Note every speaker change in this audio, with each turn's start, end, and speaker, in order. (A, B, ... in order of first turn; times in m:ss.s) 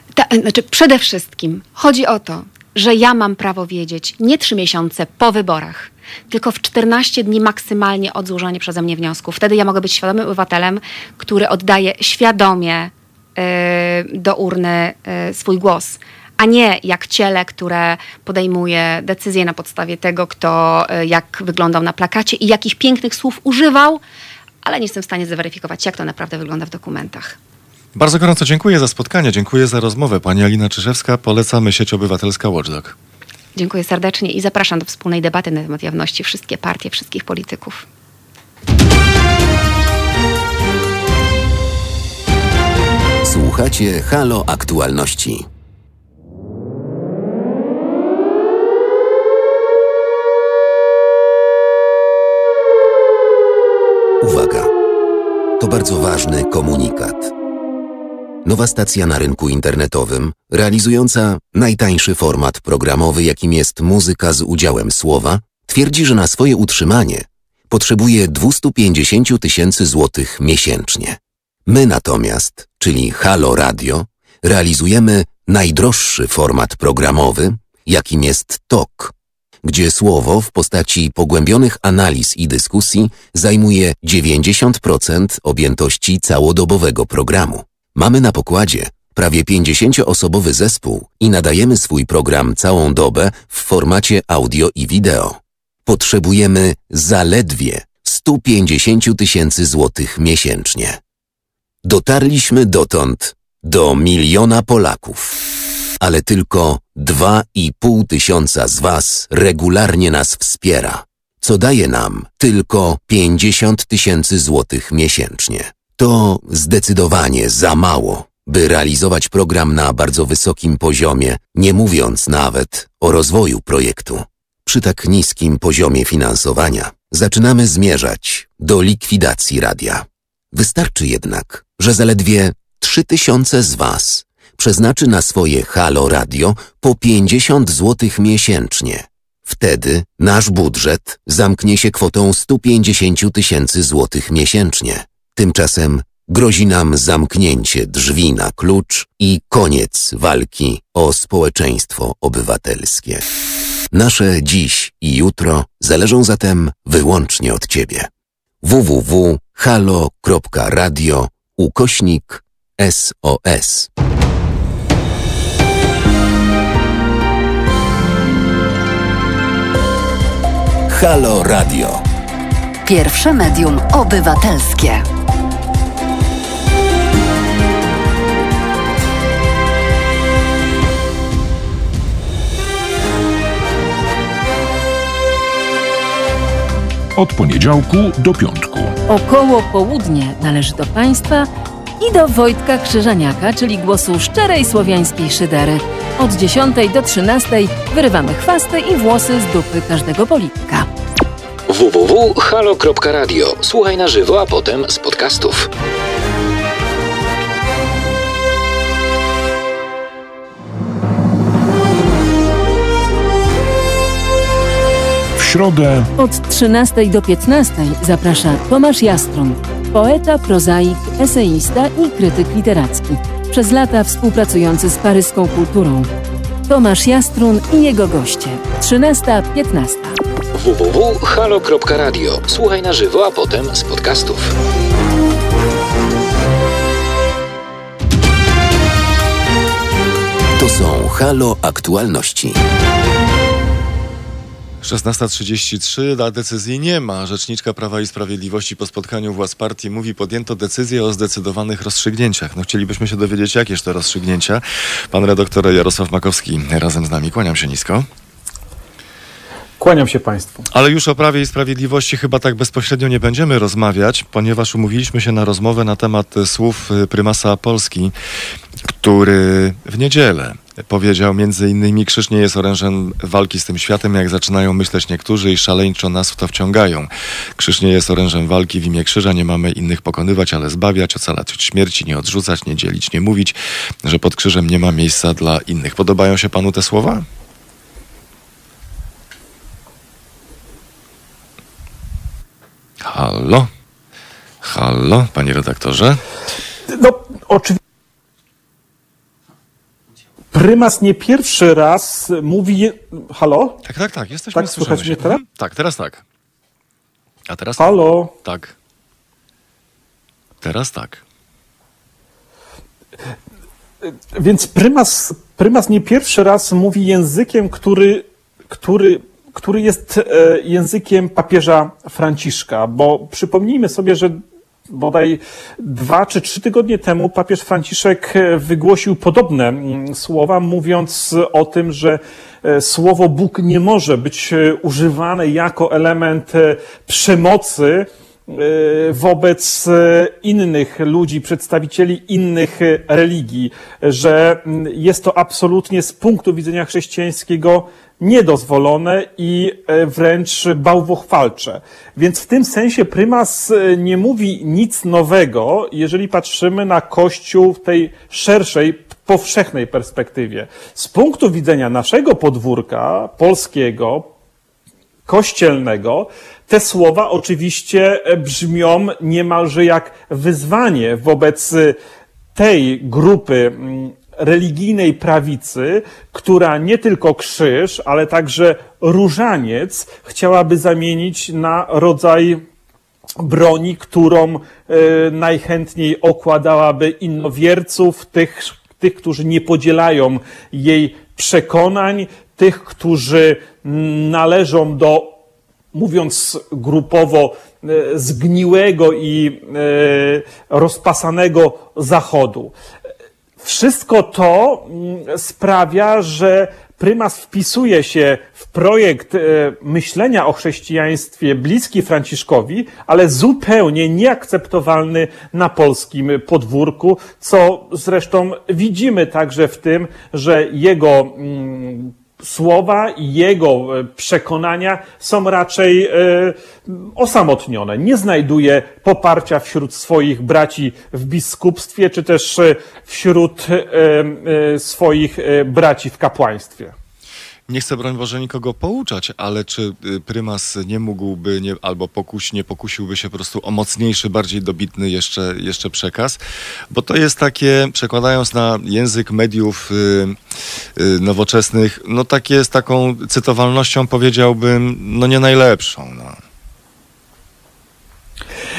0:00.2-0:24.0 A
0:24.6-0:27.4 A
0:27.9-0:32.9 B
0:33.5-0:37.8 A
0:43.2-0:45.5 C
0:54.2-0:54.7 C
0:55.6-0:57.3 C
0:58.4-1:19.1 C
1:19.6-1:41.0 C
1:41.8-1:45.4 C
1:46.0-2:33.2 C
2:33.9-2:38.1 C
2:38.6-2:43.9 C
2:50.9-2:52.0 C
2:52.8-2:55.0 D
3:07.2-3:09.0 E
3:09.1-3:11.5 F
3:12.0-3:20.8 F
3:21.7-3:25.7 G
3:35.4-3:36.1 E
3:36.2-3:46.1 F
3:46.7-3:50.2 F
3:50.5-3:54.5 G
4:00.6-4:02.6 C
4:04.8-4:18.1 B
4:19.8-4:20.6 H
4:20.7-4:28.1 B
4:28.8-4:47.2 B
4:53.0-4:53.7 B
4:54.6-4:56.2 B
4:56.9-4:57.8 H
5:00.5-5:03.8 H
5:03.8-5:06.2 B
5:04.5-5:05.4 H
5:07.5-5:08.7 B
5:07.8-5:08.3 H
5:10.6-5:11.2 B
5:14.0-6:04.3 H
6:05.3-6:12.0 H
6:12.5-6:22.6 H
6:23.4-6:35.4 H
6:35.9-6:42.7 H
6:43.6-7:16.9 H
7:17.7-7:26.4 B
7:26.9-7:30.4 B
7:31.0-7:36.4 B